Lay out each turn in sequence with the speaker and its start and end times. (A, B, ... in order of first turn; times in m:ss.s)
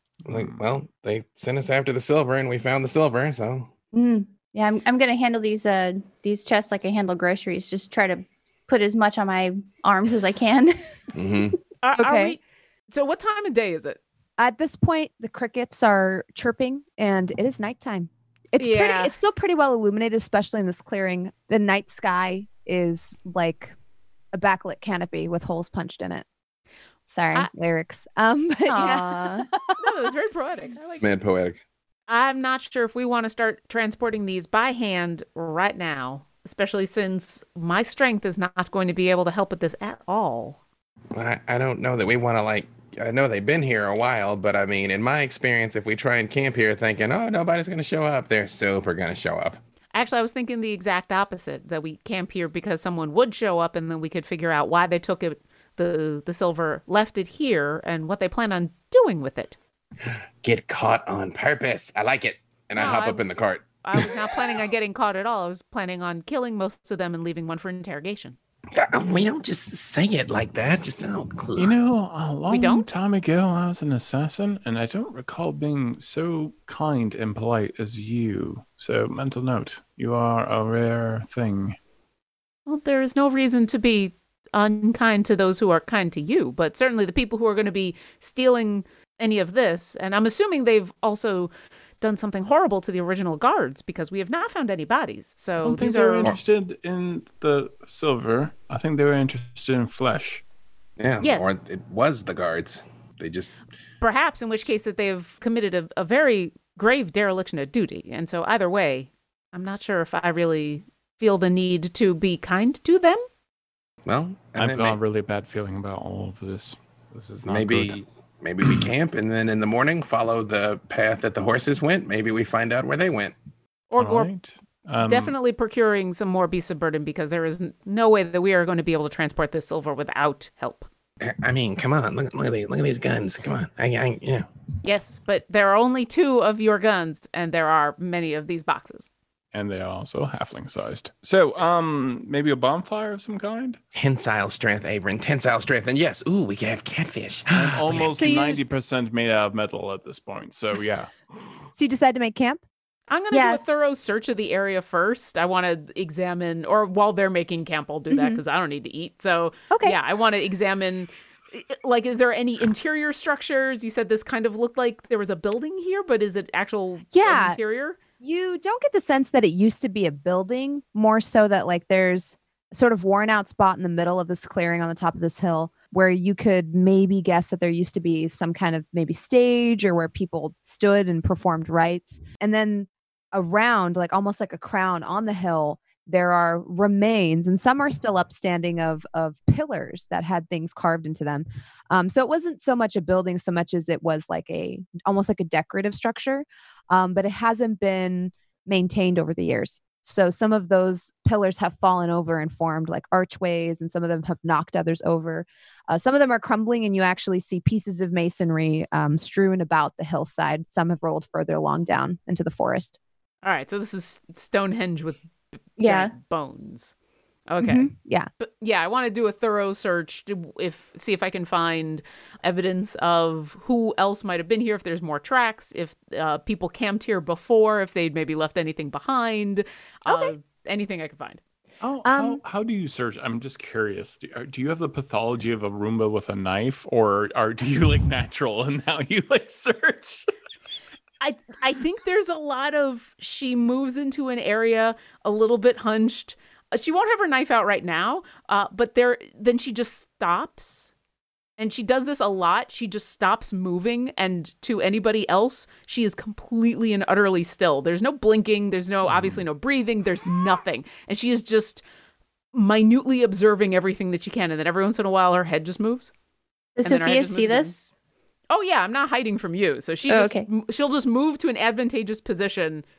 0:00.3-0:03.7 A
0:00.3-0:00.6 B
0:03.9-0:10.8 C
0:11.1-0:11.6 A
0:11.8-0:14.0 D
0:12.0-0:12.4 E
0:14.4-0:23.8 E
0:18.6-0:19.1 D
0:24.3-0:26.2 E
0:27.1-0:29.8 E
0:28.7-0:29.5 C
0:29.8-0:31.1 D
0:31.0-0:31.6 A
0:32.1-0:40.6 D
0:41.1-0:49.6 A
0:49.9-0:59.6 D
1:00.1-1:04.4 A
1:02.8-1:03.2 D
1:03.8-1:08.4 D
1:08.7-1:11.8 A
1:11.6-1:21.8 B
1:12.5-1:12.9 D
1:22.7-1:36.3 D
1:35.6-1:40.4 B
1:41.0-1:43.5 A
1:41.2-1:41.6 D
1:44.0-1:53.2 D
1:54.1-1:55.0 A
1:54.6-1:58.0 B
1:57.5-2:03.4 A
2:03.9-2:04.3 D
2:04.0-2:05.3 B
2:05.0-2:10.9 D
2:11.2-2:14.5 A
2:14.8-2:19.1 D
2:19.5-2:23.8 B
2:23.9-2:28.2 A
2:27.5-2:31.1 B
2:28.1-2:28.6 E
2:31.8-2:32.6 E
2:33.1-2:48.0 D
2:33.3-2:33.6 C
2:38.1-2:38.4 E
2:39.7-2:40.0 E
2:47.1-2:47.6 E
2:48.2-3:33.0 E
3:33.4-3:35.2 D
3:35.8-3:36.9 D
3:35.8-3:36.1 C
3:37.5-3:37.9 D
3:37.6-3:38.3 E
3:38.4-3:51.4 D
3:50.1-3:50.3 E
3:51.8-4:00.3 B
3:52.0-3:52.4 E
4:01.2-4:10.9 D
4:11.6-4:21.8 D
4:19.1-4:19.4 B
4:22.5-4:26.1 D
4:26.8-4:27.9 C
4:26.8-4:27.7 D
4:28.5-4:32.8 D
4:30.1-4:30.5 C